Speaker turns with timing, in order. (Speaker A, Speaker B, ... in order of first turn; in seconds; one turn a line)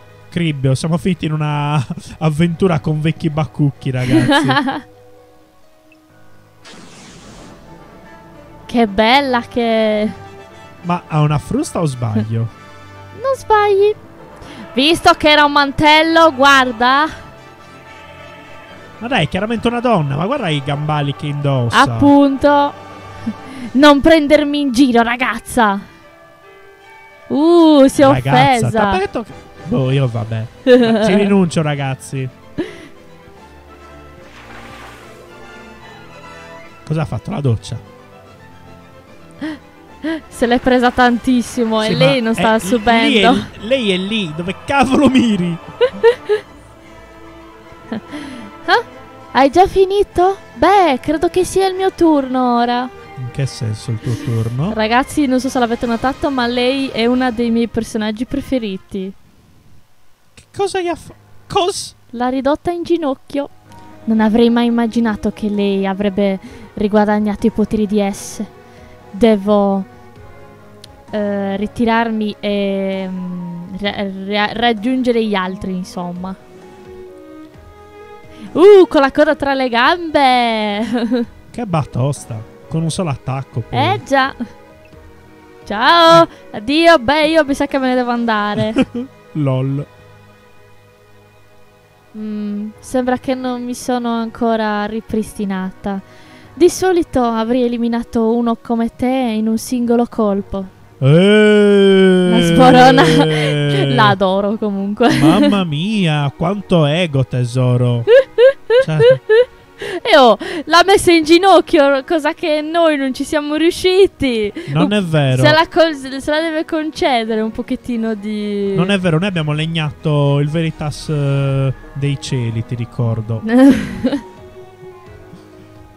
Speaker A: 0.3-4.6
Speaker B: 4.1-4.8
Speaker B: 8.7-10.2
Speaker A: 10.8-12.5
Speaker B: 13.1-14.0
Speaker B: 14.7-17.1
Speaker A: 19.0-22.1
Speaker B: 21.7-22.8
Speaker B: 23.5-25.9
Speaker B: 27.3-29.0
Speaker A: 28.0-32.3
Speaker B: 30.7-31.3
Speaker A: 36.8-37.8
Speaker B: 40.0-43.5
Speaker A: 41.8-45.6
Speaker B: 46.0-46.4
Speaker B: 47.9-52.9
Speaker A: 53.2-54.8
Speaker B: 54.7-59.1
Speaker A: 60.4-62.0
Speaker B: 62.1-63.5
Speaker B: 64.0-68.5
Speaker B: 69.1-69.9
Speaker B: 71.1-76.4
Speaker B: 78.5-81.2
Speaker A: 81.5-84.0
Speaker B: 83.7-84.4
Speaker B: 85.7-88.8
Speaker A: 88.6-89.9
Speaker B: 92.1-96.0
Speaker B: 96.5-100.7
Speaker A: 101.0-104.1
Speaker B: 102.3-105.6
Speaker A: 105.1-108.1
Speaker B: 108.2-108.5
Speaker A: 108.8-109.2
Speaker B: 109.0-118.9
Speaker A: 114.7-115.6
Speaker A: 118.7-123.4
Speaker B: 123.4-124.2